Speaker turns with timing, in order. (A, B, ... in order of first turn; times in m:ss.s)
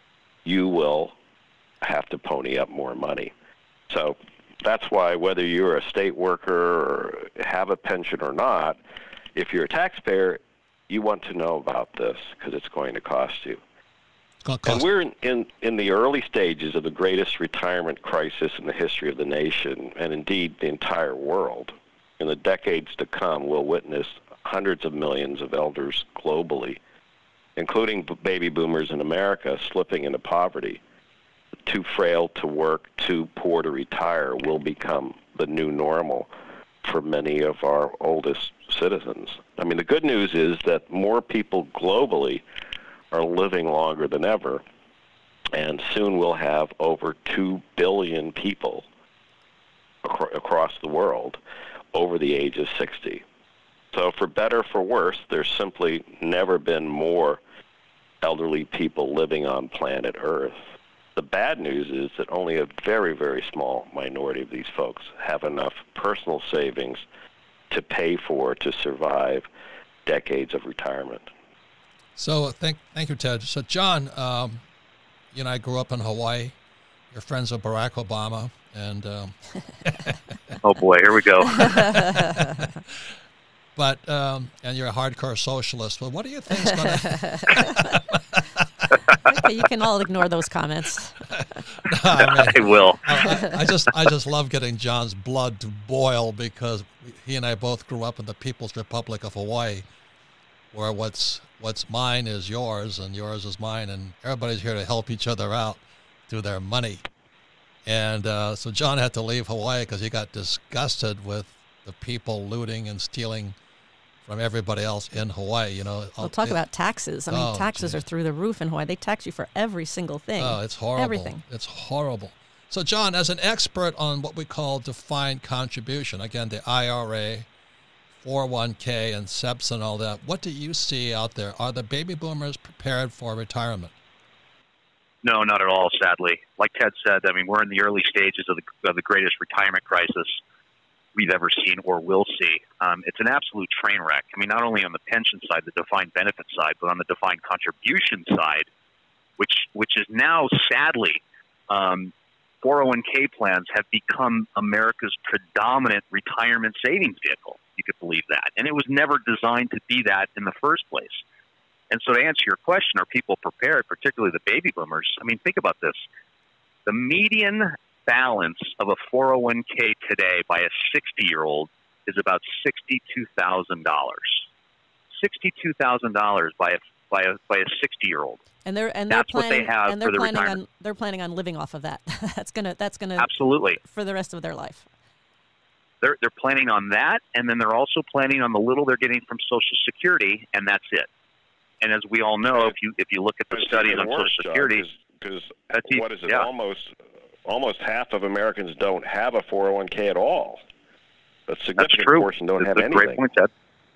0:00.4-0:01.2 A
0:01.8-0:03.3 A
0:03.9-0:08.8 A
0:09.3-0:13.6 A
0:14.4-0:14.8 B
0:14.6-0:26.8 A
0:27.6-0:30.8 A
0:31.6-0:36.3 A
0:36.8-0:42.4 A
0:43.1-0:44.6 A
0:45.5-0:48.8 A
0:50.0-0:51.4 A
0:51.9-0:53.2 A
0:53.9-0:57.4 A
0:58.2-1:00.6 A
1:01.2-1:07.0 A
1:07.7-1:09.5 A
1:10.0-1:11.3 A
1:12.2-1:14.6 B
1:15.3-1:16.5 B
1:17.1-1:20.6 B
1:20.6-1:21.8 C
1:21.6-1:22.9 B
1:21.9-1:22.4 D
1:23.8-1:28.9 B
1:27.0-1:27.8 D
1:29.2-1:31.2 D
1:31.3-1:39.8 B
1:32.5-1:33.1 C
1:40.7-1:47.0 B
1:47.8-1:53.6 B
1:54.2-1:56.6 B
1:56.2-2:01.4 D
1:57.3-1:58.0 B
2:00.4-2:07.5 B
2:08.2-2:13.9 B
2:15.2-2:20.4 C
2:21.1-2:28.7 C
2:29.4-2:41.2 C
2:41.9-2:46.0 C
2:46.8-2:54.4 C
2:55.2-2:58.4 C
2:58.6-3:04.8 D
2:59.1-3:00.6 C
3:03.2-3:03.8 C
3:06.0-3:11.1 C
3:11.8-3:14.8 C
3:13.5-3:16.9 A
3:15.7-3:16.4 C
3:17.4-3:20.6 A
3:21.5-3:23.2 A
3:21.8-3:23.5 C